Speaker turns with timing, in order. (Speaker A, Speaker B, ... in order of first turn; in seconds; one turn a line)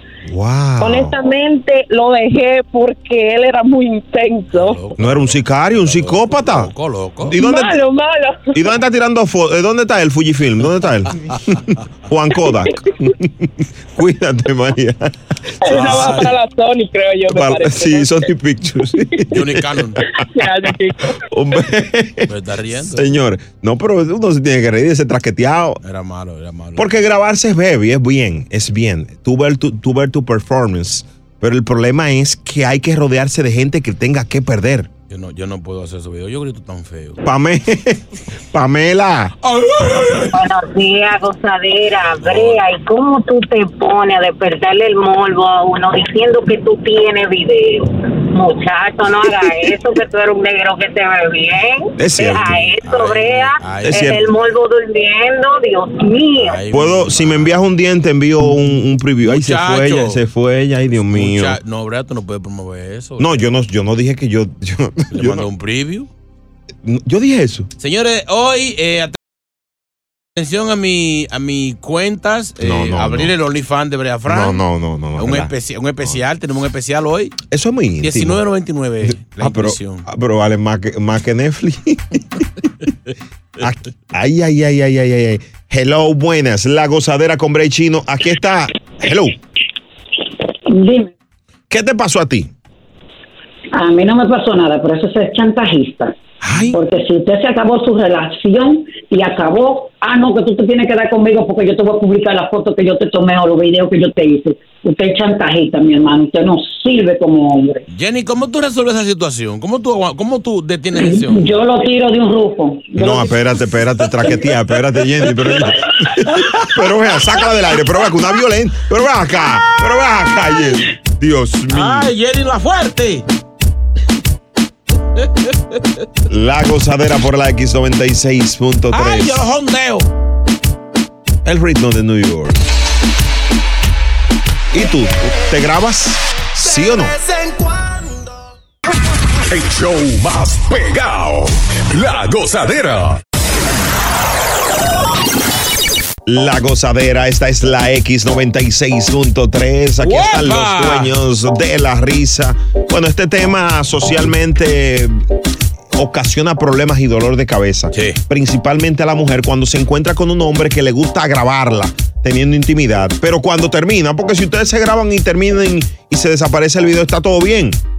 Speaker A: 0.2-1.1
Speaker B: 1.2-4.4
Speaker C: 4.5-7.4
Speaker A: 5.0-7.8
Speaker B: 7.4-8.2
Speaker A: 8.5-15.1
Speaker A: 15.6-16.3
Speaker C: 15.7-16.3
Speaker B: 15.9-18.0
Speaker A: 17.3-20.0
Speaker C: 19.3-20.0
Speaker B: 20.4-20.9
Speaker A: 21.2-25.8
Speaker C: 22.3-23.1
Speaker C: 25.8-26.9
Speaker A: 26.8-34.9
Speaker C: 35.1-37.2
Speaker A: 37.2-39.3
Speaker D: 40.2-56.6
Speaker C: 42.2-42.6
Speaker A: 52.0-52.5
Speaker C: 52.5-54.1
Speaker A: 53.8-54.3
Speaker C: 56.4-57.6
Speaker A: 56.7-61.6
Speaker C: 59.2-60.2
Speaker C: 61.0-63.4
Speaker A: 63.2-65.5
Speaker C: 65.1-66.1
Speaker A: 66.8-67.7
Speaker C: 67.8-69.2
Speaker C: 70.3-74.6
Speaker A: 72.6-73.3
Speaker A: 74.3-76.2
Speaker C: 75.2-77.4
Speaker A: 77.5-78.4
Speaker C: 78.0-80.0
Speaker A: 79.0-82.4
Speaker A: 83.6-89.3
Speaker E: 90.7-91.1
Speaker A: 91.7-92.5
Speaker E: 93.7-96.1
Speaker A: 96.4-96.8
Speaker E: 96.7-107.8
Speaker C: 107.9-111.5
Speaker E: 110.9-113.4
Speaker A: 113.0-122.1
Speaker C: 121.7-123.2
Speaker A: 126.3-129.4
Speaker C: 128.9-130.1
Speaker A: 131.4-132.6
Speaker A: 134.7-137.2
Speaker F: 139.5-143.2
Speaker A: 146.2-155.2
Speaker C: 150.0-151.1
Speaker A: 155.9-167.8
Speaker C: 157.9-158.2